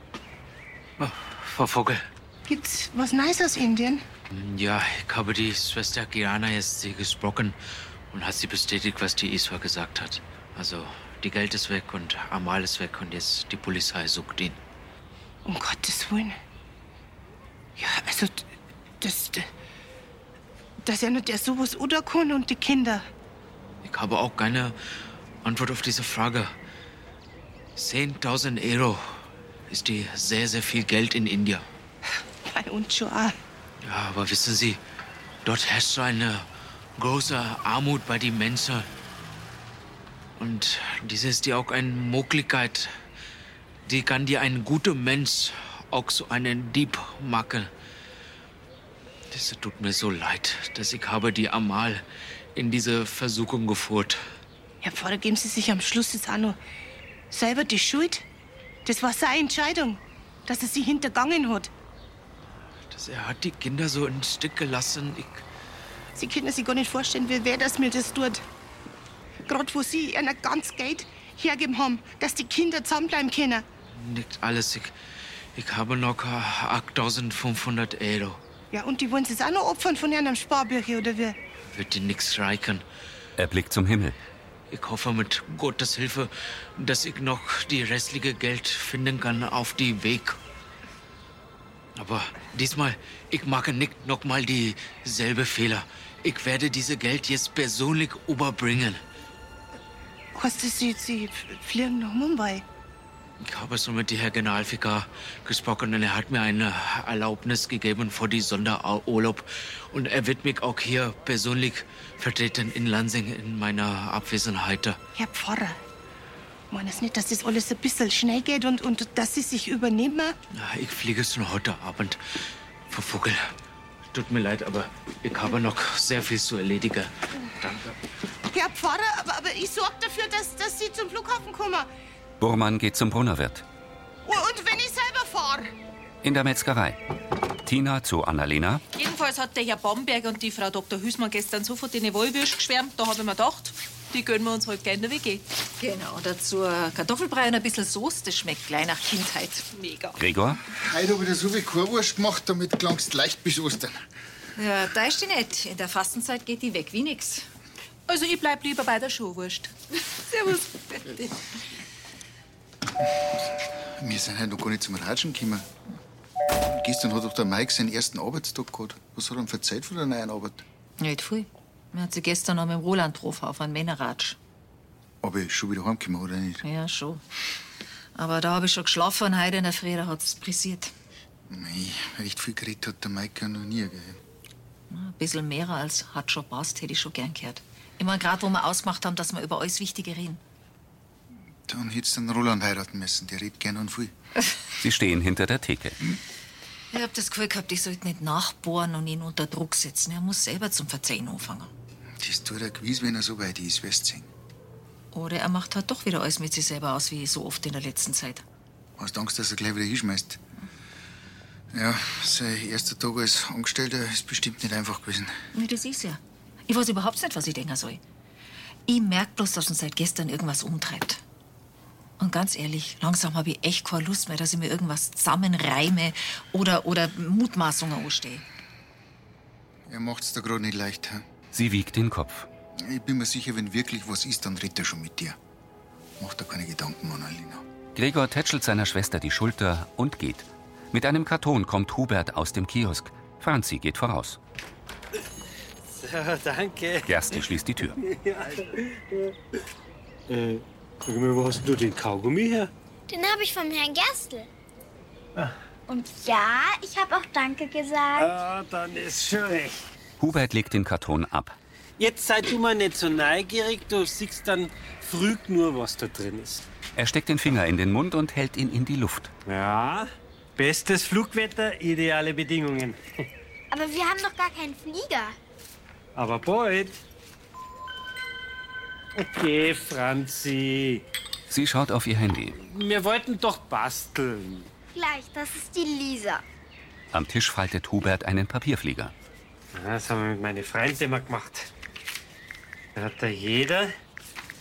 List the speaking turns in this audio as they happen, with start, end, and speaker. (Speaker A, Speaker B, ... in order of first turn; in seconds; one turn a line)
Speaker A: 1.0-2.1
Speaker B: 2.5-4.0
Speaker A: 4.3-7.6
Speaker A: 8.1-14.6
Speaker B: 15.4-16.4
Speaker B: 17.8-18.5
Speaker B: 19.0-19.5
Speaker B: 20.8-23.1
Speaker A: 23.8-24.8
Speaker A: 25.4-26.5
Speaker A: 27.7-31.6
Speaker B: 32.4-33.4
Speaker A: 33.8-34.8
Speaker A: 35.4-38.9
Speaker A: 40.4-42.9
Speaker A: 43.8-47.7
Speaker A: 49.3-52.0
Speaker A: 52.5-54.2
Speaker B: 54.8-56.6
Speaker B: 57.3-58.2
Speaker B: 58.9-61.7
Speaker A: 62.9-65.4
Speaker B: 66.1-68.4
Speaker B: 69.5-73.6
Speaker A: 73.9-74.9
Speaker A: 75.5-78.4
Speaker B: 78.7-81.3
Speaker A: 81.7-82.8
Speaker C: 83.4-84.2
Speaker A: 84.7-90.3
Speaker A: 92.0-99.0
Speaker B: 100.3-102.6
Speaker A: 103.4-115.0
Speaker B: 115.2-115.8
Speaker B: 116.7-120.3
Speaker A: 120.5-123.5
Speaker A: 124.1-128.0
Speaker B: 128.5-131.9
Speaker C: 132.4-133.6
Speaker B: 134.2-135.7
Speaker C: 136.2-137.0
Speaker C: 137.7-138.8
Speaker D: 138.9-145.4
Speaker E: 145.8-150.1
Speaker C: 150.2-150.6
Speaker F: 150.7-154.0
Speaker E: 154.6-157.5
Speaker D: 158.1-159.7
Speaker E: 160.3-161.3
Speaker F: 163.8-165.7
Speaker F: 166.5-170.6
Speaker E: 171.0-174.4
Speaker F: 175.2-176.6
Speaker E: 176.6-177.2
Speaker E: 178.1-180.9
Speaker F: 181.5-184.2
Speaker E: 184.9-190.4
Speaker F: 191.7-194.1
Speaker C: 194.8-196.0
Speaker E: 196.9-201.7
Speaker F: 202.2-204.3
Speaker E: 205.1-208.4
Speaker F: 209.0-210.4
Speaker F: 211.7-215.4
Speaker E: 215.5-218.0
Speaker E: 218.9-221.2
Speaker E: 222.2-228.4
Speaker F: 229.9-231.2
Speaker C: 231.5-232.5
Speaker F: 232.8-235.4
Speaker F: 236.2-237.6
Speaker C: 237.9-244.4
Speaker G: 246.0-247.4
Speaker C: 247.1-248.0
Speaker G: 247.9-249.3
Speaker G: 250.3-252.7
Speaker H: 253.1-254.5
Speaker H: 255.9-258.3
Speaker G: 258.1-259.8
Speaker C: 260.2-261.6
Speaker G: 262.0-266.6
Speaker C: 266.9-269.3
Speaker G: 269.4-273.0
Speaker H: 273.7-275.4
Speaker G: 276.1-277.0
Speaker G: 279.1-281.0
Speaker C: 281.5-282.6
Speaker G: 282.6-284.7
Speaker H: 284.9-286.4
Speaker C: 287.1-289.1
Speaker G: 289.7-291.7
Speaker G: 292.9-293.9